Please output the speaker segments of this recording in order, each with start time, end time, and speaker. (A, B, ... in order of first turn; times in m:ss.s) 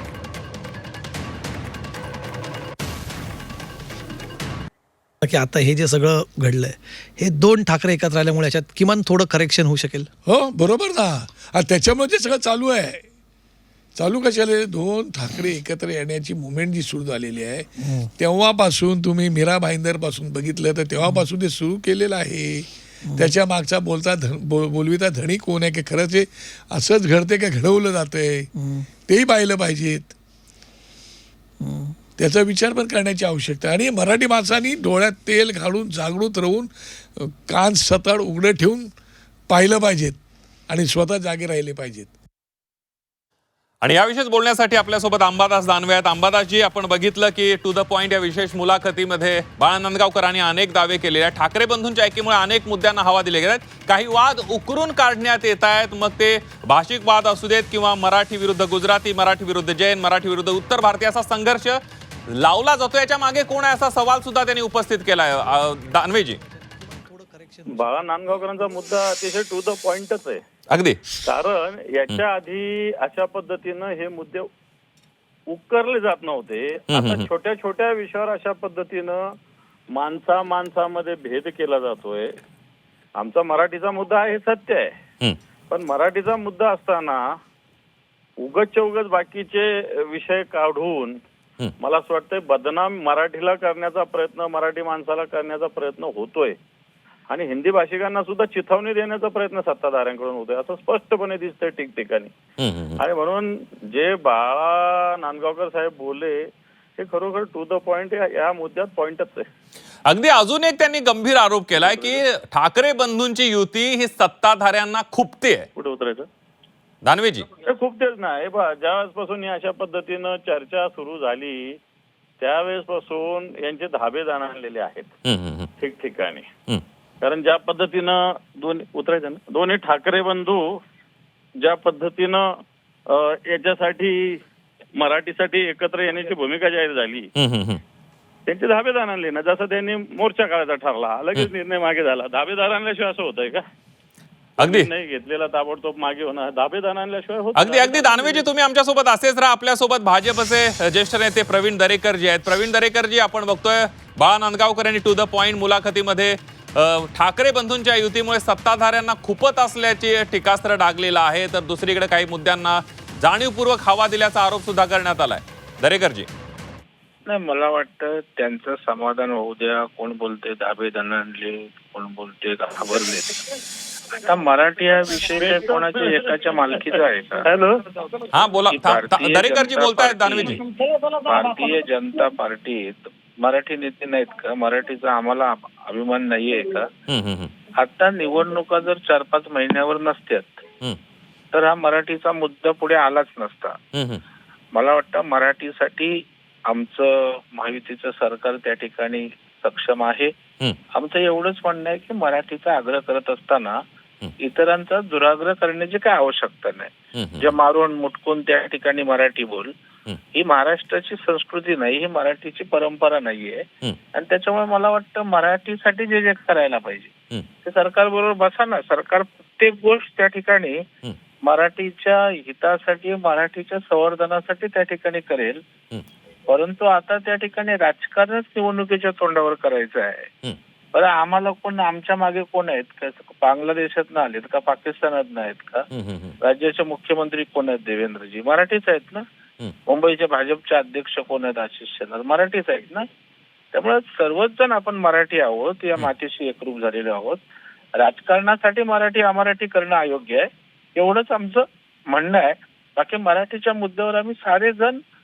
0:05.2-0:10.1 A
0:10.2-0:13.0 B
0:14.0-0:28.5 B
0:28.6-0:28.8 A
0:29.0-0:30.1 B
0:31.6-0:32.0 A
0:32.2-0:38.9 B
0:39.5-0:40.2 B
0:40.7-0:42.1 B
0:43.8-1:06.4 C
1:06.4-1:08.1 A
1:07.7-1:10.4 D
1:10.7-1:11.0 C
1:11.2-1:14.5 D
1:15.5-1:19.2 D
1:16.9-1:17.3 C
1:19.9-1:22.3 D
1:23.2-1:25.0 D
1:25.7-1:27.2 D
1:28.4-1:31.2 D
1:31.8-1:36.6 D
1:37.3-1:42.3 D
1:42.6-1:43.0 C
1:43.0-1:46.5 D
1:47.0-1:49.4 D
1:50.1-1:55.7 C
1:51.8-1:52.2 D
1:55.8-1:56.3 D
1:57.0-1:57.5 C
1:57.6-2:01.8 D
2:02.4-2:05.1 D
2:05.2-2:05.7 C
2:05.8-2:06.5 D
2:07.2-2:10.6 D
2:11.6-2:12.4 D
2:13.1-2:14.4 D
2:15.0-2:17.3 D
2:17.4-2:17.8 C
2:18.5-2:23.6 D
2:24.6-2:24.9 C
2:24.6-2:28.4 D
2:27.6-2:46.3 C
2:47.3-2:53.4 E
2:54.1-2:57.5 E
2:55.4-2:56.3 D
2:57.4-2:57.7 D
2:58.3-3:00.6 C
2:58.7-3:00.6 E
3:01.2-3:06.9 E
3:07.1-3:07.5 C
3:07.8-3:10.6 E
3:11.5-3:13.7 E
3:13.9-3:14.2 C
3:14.7-3:16.1 E
3:16.7-3:20.3 E
3:20.9-3:23.7 E
3:24.4-3:29.7 E
3:27.2-3:27.5 C
3:30.3-3:37.1 E
3:37.6-3:40.8 E
3:41.4-3:45.6 E
3:46.5-3:50.3 E
3:50.9-3:55.8 E
3:55.9-3:56.4 C
3:56.4-3:59.2 E
3:59.9-4:03.0 E
4:03.7-4:07.4 E
4:08.0-4:15.0 E